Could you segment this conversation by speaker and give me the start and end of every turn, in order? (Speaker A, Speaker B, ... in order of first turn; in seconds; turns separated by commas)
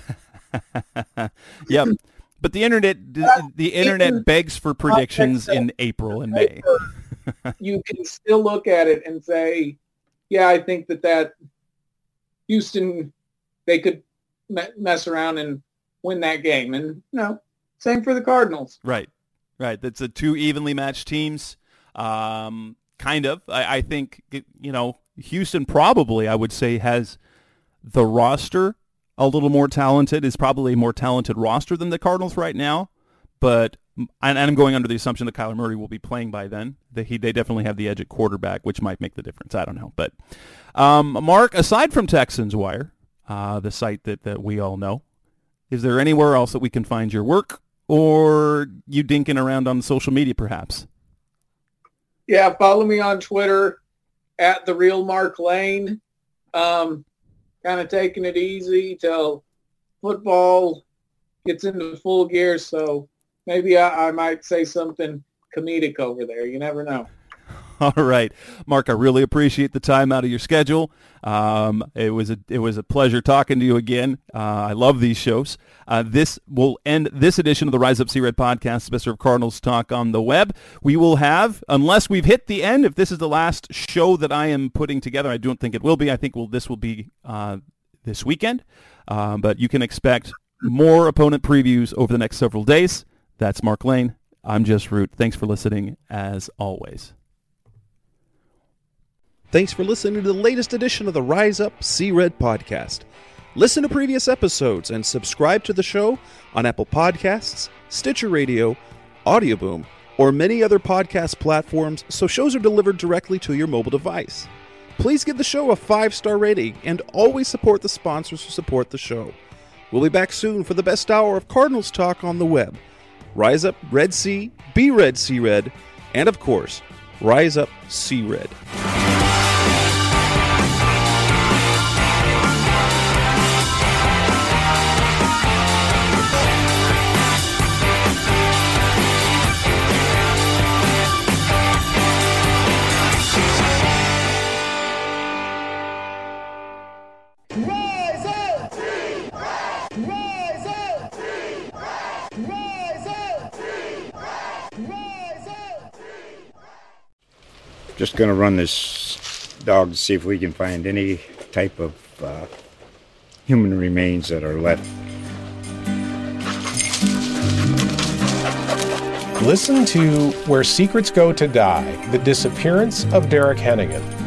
Speaker A: 0.5-6.7, Speaker B: 3.8-4.2, Speaker B: 4.9-5.6, Speaker B: 6.3-6.8, Speaker B: 7.6-9.8, Speaker B: 10.3-11.3, Speaker B: 12.5-13.1, Speaker B: 13.7-18.8, Speaker A: 18.8-19.1, Speaker A: 19.6-27.2, Speaker A: 27.8-32.9, Speaker A: 33.4-40.1, Speaker A: 40.7-45.0, Speaker A: 45.7-50.9, Speaker B: 52.3-53.8, Speaker B: 54.4-56.0, Speaker B: 56.5-57.0, Speaker B: 57.6-59.4, Speaker B: 60.0-60.8, Speaker B: 61.4-67.1, Speaker A: 67.8-97.1, Speaker C: 99.5-119.4, Speaker C: 119.9-122.8, Speaker C: 123.3-128.6, Speaker D: 157.9-162.5, Speaker D: 163.4-164.9, Speaker E: 169.4-174.1